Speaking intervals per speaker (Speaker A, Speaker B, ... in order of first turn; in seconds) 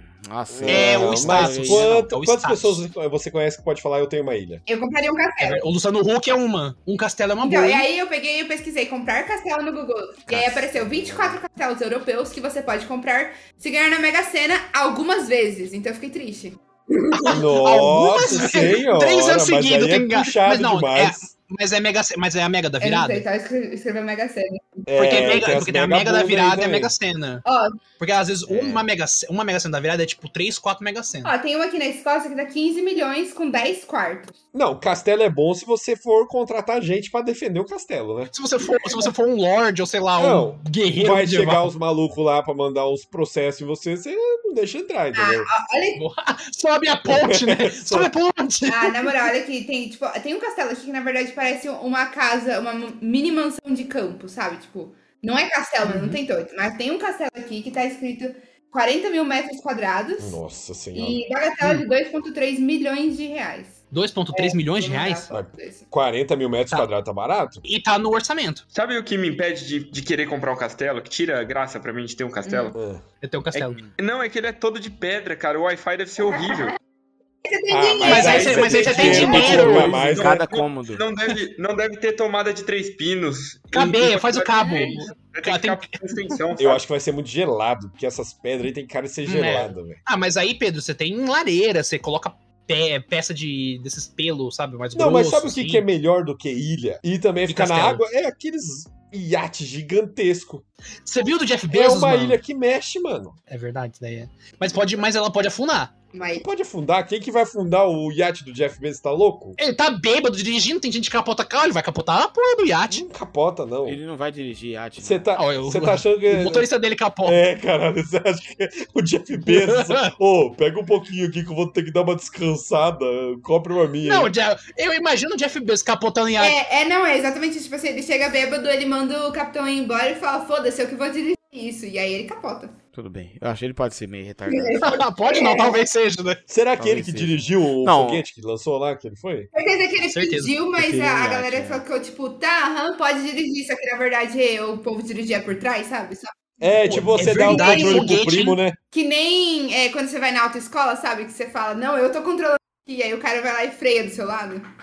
Speaker A: 0.2-2.1, 10.3-11.4, 28.5-28.8, 78.8-81.0, 113.8-115.3, 132.9-134.9, 136.8-138.2, 140.8-141.8
Speaker B: 0.5-4.6, 17.3-21.3, 24.9-26.9, 34.5-38.3, 40.2-45.5, 47.1-48.1, 60.2-61.2, 65.3-67.6, 72.7-73.0, 77.7-80.4, 86.6-90.0, 94.9-100.6, 101.7-103.4, 106.4-109.6, 112.9-114.0, 115.0-116.7, 117.2-124.3, 136.5-139.5, 146.6-148.8
Speaker C: 0.6-2.8, 5.4-7.9, 17.1-23.2, 25.0-27.4, 28.0-31.3, 38.3-41.7, 46.0-49.1, 55.8-56.2, 63.9-65.3, 67.6-68.6, 73.2-73.8, 78.0-79.9, 83.7-86.4, 89.2-95.8, 97.5-98.0, 101.0-102.4, 103.5-105.9, 109.6-113.0, 115.3-117.4, 119.4-120.1, 124.0-126.5, 134.7-136.4, 140.1-140.5, 146.8-148.6
Speaker D: 4.7-5.7, 7.4-17.7, 18.2-18.7, 22.8-25.4, 27.4-27.8, 31.2-34.4, 45.1-46.0, 48.7-60.4, 60.9-63.8, 64.3-65.9, 72.5-72.8, 77.4-79.7, 84.6-85.0, 106.1-106.5, 126.4-132.8, 134.5-135.8, 139.5-148.2, 148.9-154.7
Speaker E: 68.7-72.8, 73.5-76.8, 79.6-86.8